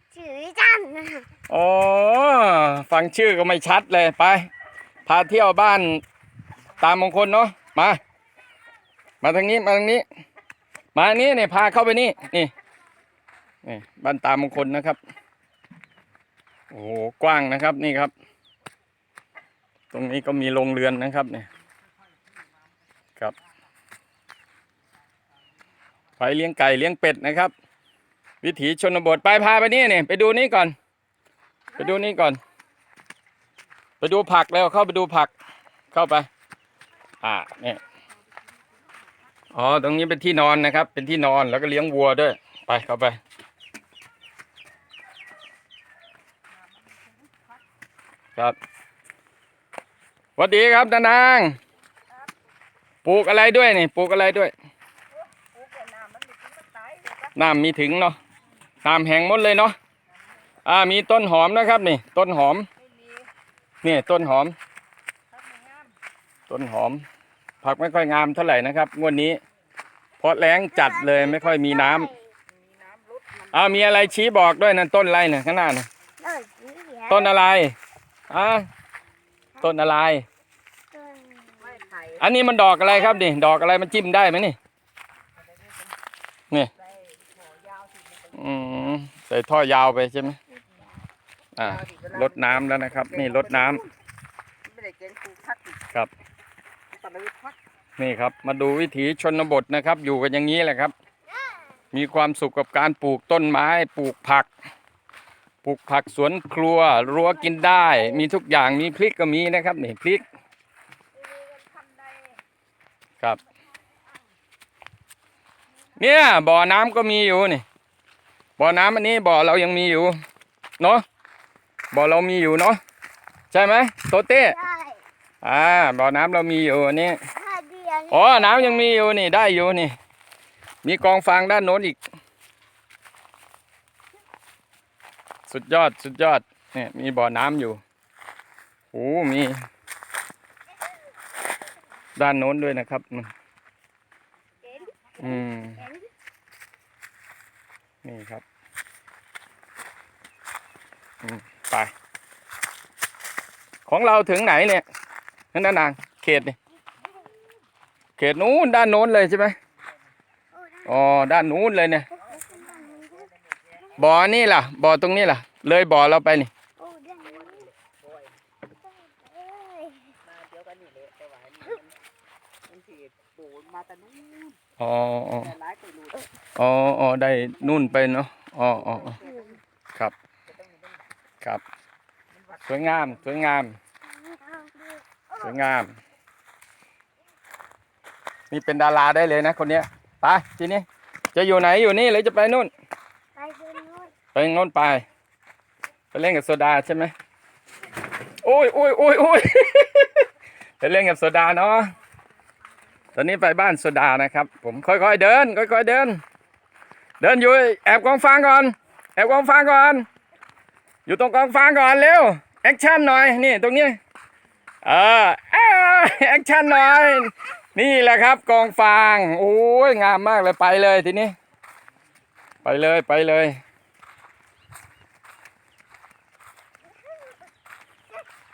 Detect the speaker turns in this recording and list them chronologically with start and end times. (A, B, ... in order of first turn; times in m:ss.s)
0:00.1-0:01.3 A
0:01.5-0:04.5 B
0:05.0-0:06.0 B
0:06.8-0:08.0 B
0:09.2-0:10.0 B
0:10.9-0:12.5 B
0:13.6-0:15.0 B
0:16.7-0:18.1 B
0:19.9-0:21.5 B
0:26.2-0:27.5 B
0:28.4-0:30.7 B
0:31.8-0:32.4 B
0:34.0-0:35.3 B
0:35.9-0:36.3 B
0:37.2-0:37.8 B
0:39.5-0:43.2 B
0:50.4-0:51.6 B
0:53.0-0:54.5 B
0:55.6-0:57.3 C
0:57.3-0:58.2 B
0:58.8-0:59.8 B
1:00.6-1:02.7 B
1:03.8-1:04.6 B
1:05.5-1:05.8 C
1:06.5-1:07.0 B
1:07.6-1:09.4 B
1:10.2-1:12.1 B
1:10.7-1:12.2 A
1:12.9-1:13.5 C
1:13.5-1:15.9 B
1:16.2-1:17.3 A
1:17.1-1:17.7 B
1:18.3-1:18.6 B
1:19.6-1:20.2 B
1:20.9-1:21.8 A
1:21.7-1:22.1 C
1:22.2-1:24.6 B
1:22.8-1:23.2 A
1:28.3-1:30.4 B
1:31.5-1:33.8 B
1:31.9-1:32.1 C
1:33.1-1:33.7 C
1:34.7-1:35.7 C
1:37.0-1:37.5 C
1:38.0-1:40.9 B
1:41.9-1:44.5 B
1:45.6-1:50.2 B
1:47.5-1:48.2 A
1:56.0-1:57.6 B
1:58.6-2:00.2 B
2:00.8-2:01.0 B
2:01.9-2:02.8 B
2:03.5-2:04.6 B
2:04.4-2:05.0 A
2:05.4-2:07.2 B
2:07.3-2:08.9 A
2:08.1-2:10.0 B
2:10.8-2:12.0 B
2:15.5-2:17.8 B
2:18.9-2:19.6 B
2:22.2-2:23.3 B
2:24.7-2:26.0 A
2:25.2-2:25.8 B
2:28.0-2:28.4 B
2:31.2-2:31.9 B
2:33.8-2:34.8 B
2:35.5-2:36.6 B
2:38.2-2:39.5 B
2:40.5-2:40.9 A
2:40.8-2:42.1 B
2:42.2-2:43.3 A
2:44.0-2:46.5 B
2:46.8-2:47.7 A
2:49.0-2:50.2 A
2:50.3-2:51.8 C
2:52.7-2:54.5 C
2:54.8-2:55.5 B
2:55.6-2:56.1 C
2:56.6-2:59.2 B
2:59.2-2:59.6 A
3:02.6-3:03.8 B
3:04.1-3:05.6 A
3:05.4-3:05.9 B
3:08.5-3:12.7 B
3:13.4-3:14.1 A
3:14.3-3:15.0 B
3:16.1-3:17.1 B
3:18.4-3:20.2 B
3:20.8-3:21.9 B
3:23.1-3:26.2 B
3:27.2-3:30.0 B
3:31.0-3:34.0 B
3:34.8-3:41.3 B
3:42.6-3:43.6 B